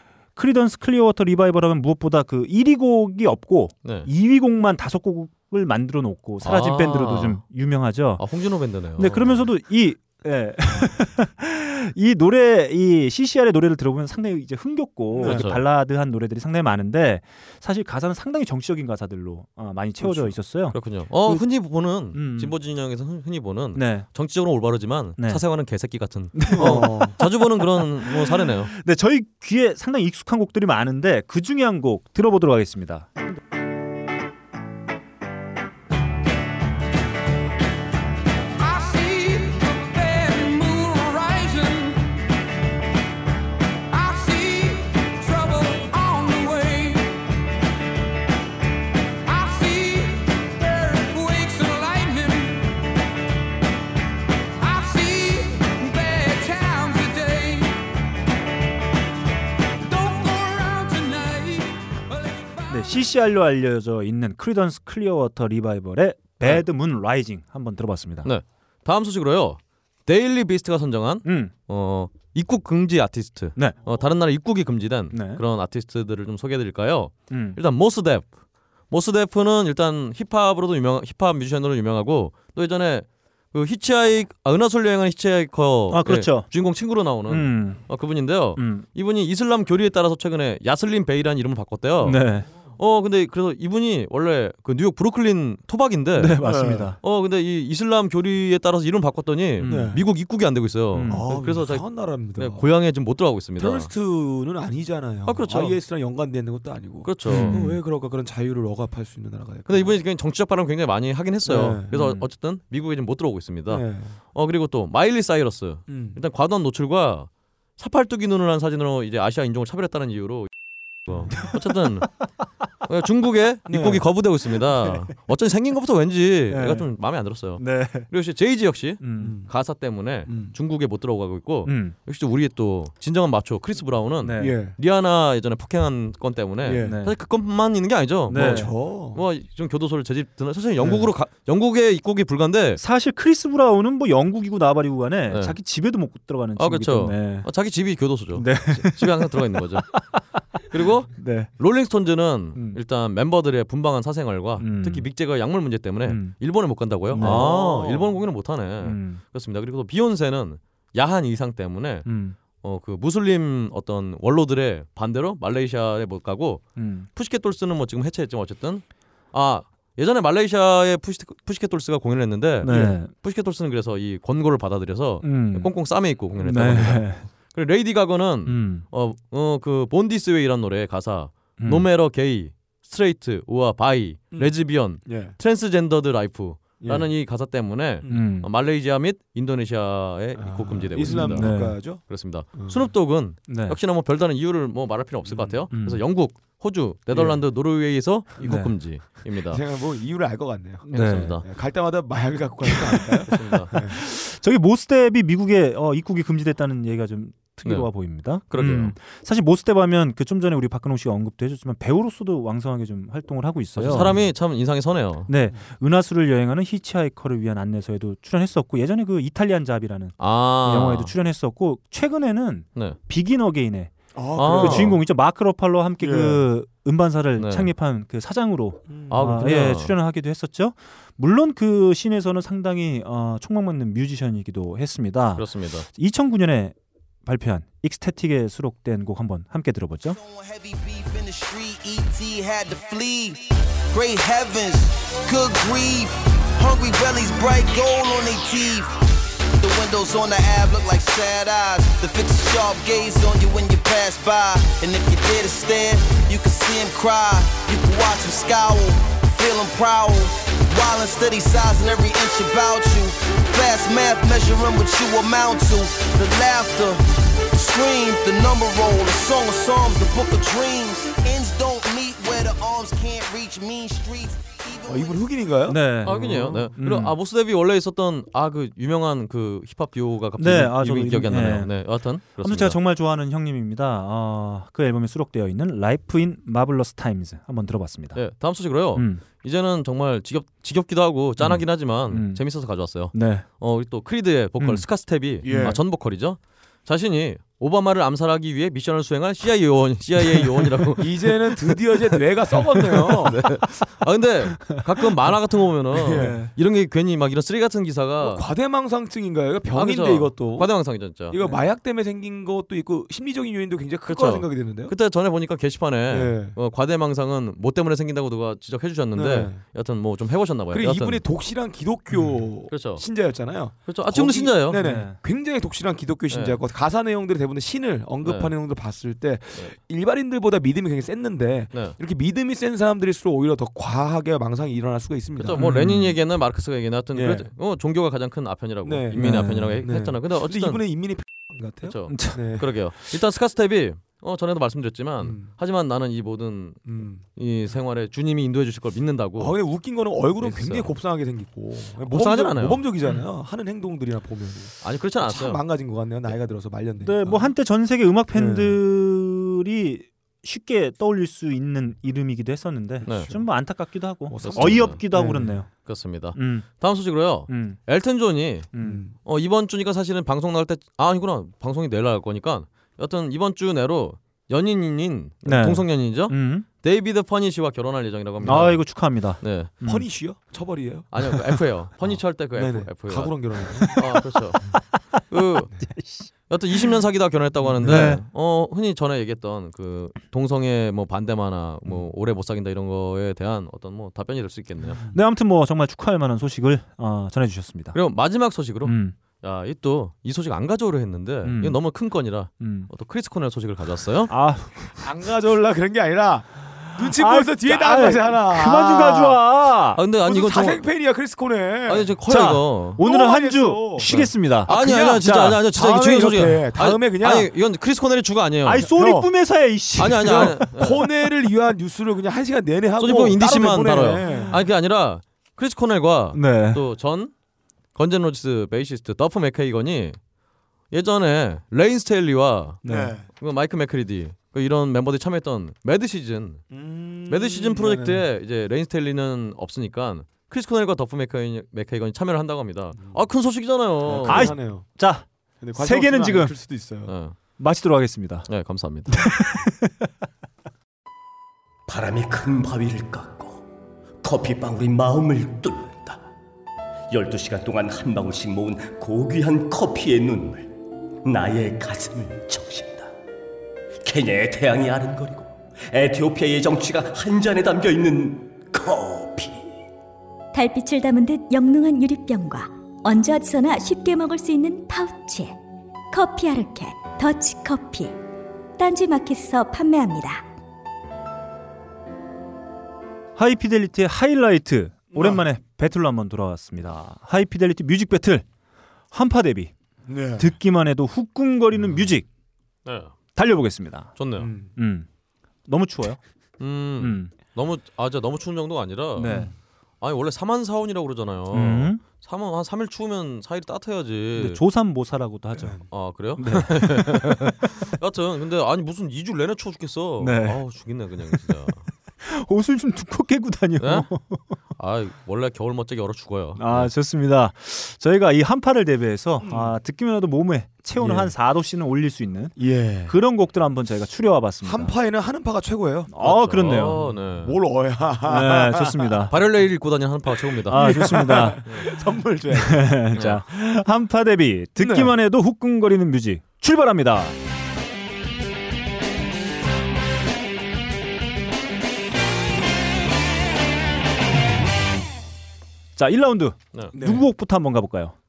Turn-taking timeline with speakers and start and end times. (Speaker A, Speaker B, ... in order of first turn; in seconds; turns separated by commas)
Speaker A: 0.3-8.2, Speaker B: 3.8-4.1, Speaker B: 6.4-7.4, Speaker B: 8.2-9.5, Speaker A: 8.9-21.4, Speaker C: 15.1-15.5, Speaker B: 15.2-15.6, Speaker B: 20.7-28.7, Speaker A: 22.1-22.5, Speaker A: 23.7-24.1, Speaker A: 26.3-33.1, Speaker C: 26.5-27.2, Speaker D: 38.6-42.0, Speaker D: 43.9-47.2, Speaker D: 49.2-52.6, Speaker D: 54.6-57.8, Speaker D: 59.8-62.8, Speaker A: 62.7-68.3, Speaker B: 68.2-78.3, Speaker A: 71.2-71.5, Speaker A: 75.1-75.4, Speaker A: 77.3-77.6, Speaker B: 78.9-103.9, Speaker A: 85.9-86.5, Speaker A: 87.3-87.8, Speaker A: 88.5-88.8, Speaker A: 92.0-92.5, Speaker A: 96.2-97.0, Speaker C: 96.4-96.9, Speaker A: 99.6-100.0, Speaker C: 99.6-100.0, Speaker A: 100.9-101.3, Speaker C: 101.1-102.6, Speaker C: 103.6-110.0, Speaker B: 105.2-105.8, Speaker B: 107.0-107.6, Speaker A: 107.3-107.8, Speaker B: 109.7-120.5, Speaker C: 111.4-111.9, Speaker A: 111.9-112.2, Speaker C: 113.7-114.2, Speaker C: 115.9-116.2, Speaker B: 121.0-122.1, Speaker B: 122.8-142.8, Speaker C: 123.7-124.1, Speaker A: 126.5-126.9, Speaker A: 127.6-128.1, Speaker A: 129.0-129.4, Speaker C: 129.2-129.5, Speaker C: 130.3-130.5, Speaker A: 131.6-131.9, Speaker A: 134.2-134.6, Speaker C: 134.4-134.8, Speaker C: 136.6-137.0, Speaker A: 136.8-137.1, Speaker A: 138.3-138.7, Speaker C: 138.3-139.2, Speaker A: 142.8-147.5, Speaker B: 145.3-145.6, Speaker B: 146.6-149.9, Speaker A: 148.3-151.5, Speaker B: 150.7-199.6, Speaker A: 154.6-155.1, Speaker A: 156.0-156.3, Speaker A: 157.1-158.1, Speaker C: 157.2-157.5, Speaker A: 158.8-159.2, Speaker A: 162.0-162.4, Speaker A: 166.8-167.1, Speaker A: 172.6-173.1, Speaker C: 172.7-172.9, Speaker A: 175.2-175.7, Speaker A: 176.4-177.3, Speaker A: 178.4-178.8, Speaker A: 181.6-181.9, Speaker C: 184.3-185.3, Speaker C: 186.8-187.1, Speaker C: 188.0-188.3, Speaker A: 188.1-188.5, Speaker C: 190.3-192.8, Speaker A: 191.0-191.8, Speaker A: 193.5-193.8, Speaker C: 195.3-195.6, Speaker A: 195.7-196.0, Speaker C: 197.1-197.4, Speaker A: 198.4-198.7, Speaker C: 199.5-200.9, Speaker A: 200.8-201.4, Speaker B: 200.9-201.4, Speaker C: 201.4-204.0, Speaker A: 202.7-214.2, Speaker B: 203.2-203.7, Speaker B: 207.6-207.9, Speaker B: 208.5-208.9, Speaker B: 213.8-215.3, Speaker A: 215.3-240.2, Speaker B: 220.2-221.1, Speaker C: 224.1-225.0, Speaker B: 224.3-225.0, Speaker C: 226.0-226.4, Speaker B: 227.4-227.7, Speaker C: 228.9-229.4, Speaker B: 229.1-229.9, Speaker B: 235.3-235.8, Speaker E: 240.1-249.0, Speaker E: 249.6-275.3, Speaker C: 274.9-275.8, Speaker A: 275.7-277.1, Speaker B: 276.0-282.8, Speaker A: 280.4-288.2, Speaker B: 288.1-308.4, Speaker A: 288.9-289.2, Speaker A: 291.4-293.4, Speaker A: 294.6-294.9, Speaker C: 295.4-295.8, Speaker A: 295.4-295.7, Speaker C: 301.0-303.4, Speaker C: 305.9-306.4, Speaker A: 306.1-306.5, Speaker C: 308.2-314.9, Speaker B: 309.7-311.4, Speaker B: 314.1-321.2, Speaker C: 316.1-316.6, Speaker C: 319.1-319.6, Speaker C: 320.7-335.7, Speaker B: 322.7-323.0, Speaker B: 323.8-324.8, Speaker A: 324.7-325.2, Speaker B: 326.3-326.6, Speaker B: 328.2-328.5, Speaker B: 335.4-340.8, Speaker A: 335.5-336.2, Speaker C: 337.1-337.5, Speaker C: 338.8-342.7, Speaker A: 339.1-339.8, Speaker B: 341.8-349.5, Speaker A: 342.1-342.7, Speaker C: 345.2-345.5, Speaker C: 346.9-347.2, Speaker C: 349.4-357.5, Speaker B: 350.4-350.9, Speaker B: 352.1-352.9, Speaker B: 354.8-355.6, Speaker A: 357.0-365.7, Speaker C: 358.3-358.8, Speaker B: 363.0-363.3, Speaker C: 363.1-363.4, Speaker C: 364.3-365.6, Speaker B: 364.4-365.0, Speaker B: 365.8-368.7, Speaker A: 366.3-366.7, Speaker A: 367.5-367.8, Speaker A: 368.7-369.0, Speaker C: 368.8-369.1, Speaker B: 369.2-378.9, Speaker A: 375.4-376.7, Speaker A: 378.4-380.1, Speaker B: 379.4-379.7, Speaker C: 379.8-381.4, Speaker B: 381.1-383.4, Speaker C: 382.0-384.0, Speaker A: 383.8-384.1, Speaker B: 383.9-385.7, Speaker A: 384.7-385.0, Speaker A: 385.9-386.3, Speaker B: 386.5-395.0, Speaker C: 387.6-388.1, Speaker A: 387.8-388.2, Speaker C: 394.9-395.2, Speaker A: 395.1-398.0, Speaker B: 397.9-404.3, Speaker A: 398.8-399.1, Speaker A: 401.4-401.8, Speaker A: 402.6-402.9, Speaker A: 404.3-405.0, Speaker C: 405.0-409.4, Speaker A: 407.0-410.0, Speaker B: 409.9-410.8, Speaker C: 410.2-412.1, Speaker B: 411.9-413.0, Speaker A: 412.2-415.6, Speaker C: 413.0-417.5, Speaker B: 414.1-418.9, Speaker A: 418.6-420.7, Speaker C: 418.9-419.3, Speaker B: 420.0-421.0, Speaker C: 420.2-424.6, Speaker B: 423.0-427.3, Speaker A: 426.3-426.8, Speaker B: 427.9-430.2, Speaker B: 430.9-436.7, Speaker C: 432.8-433.2, Speaker A: 432.8-433.1, Speaker C: 436.7-438.2, Speaker B: 437.3-444.5, Speaker C: 444.0-444.9, Speaker A: 444.2-446.6, Speaker C: 445.6-447.1, Speaker B: 447.1-447.4, Speaker A: 447.6-448.5, Speaker B: 448.5-449.2, Speaker A: 449.1-450.1, Speaker F: 451.9-453.6, Speaker F: 454.2-456.2, Speaker F: 457.1-463.1, Speaker F: 464.0-469.7, Speaker G: 470.5-475.5, Speaker G: 476.1-478.1, Speaker G: 478.8-480.4, Speaker A: 483.4-488.4, Speaker C: 485.1-485.4, Speaker A: 489.1-489.7, Speaker C: 490.1-490.5, Speaker A: 490.4-492.3, Speaker B: 492.8-493.1, Speaker A: 493.3-494.1, Speaker B: 494.1-494.5, Speaker C: 494.4-494.7, Speaker A: 494.8-495.1, Speaker A: 495.6-496.2, Speaker B: 496.6-499.4, Speaker A: 497.0-497.3, Speaker A: 499.1-499.5, Speaker B: 500.0-504.6, Speaker A: 501.5-502.0, Speaker A: 504.4-505.8, Speaker C: 505.6-505.8, Speaker B: 505.9-511.9, Speaker A: 506.4-507.6, Speaker A: 510.2-510.6, Speaker A: 512.2-514.5, Speaker B: 513.8-514.1, Speaker B: 514.8-516.9, Speaker A: 516.5-524.9, Speaker C: 519.4-519.7, Speaker C: 521.0-521.3, Speaker C: 522.6-523.2, Speaker C: 524.6-529.3, Speaker A: 526.1-527.0, Speaker B: 526.2-527.6, Speaker A: 528.2-529.3, Speaker B: 529.3-531.9, Speaker C: 530.5-533.0, Speaker A: 530.7-531.9, Speaker A: 532.5-537.4, Speaker B: 533.1-533.4, Speaker C: 534.8-535.1, Speaker A: 546.0-548.1, Speaker C: 546.9-547.2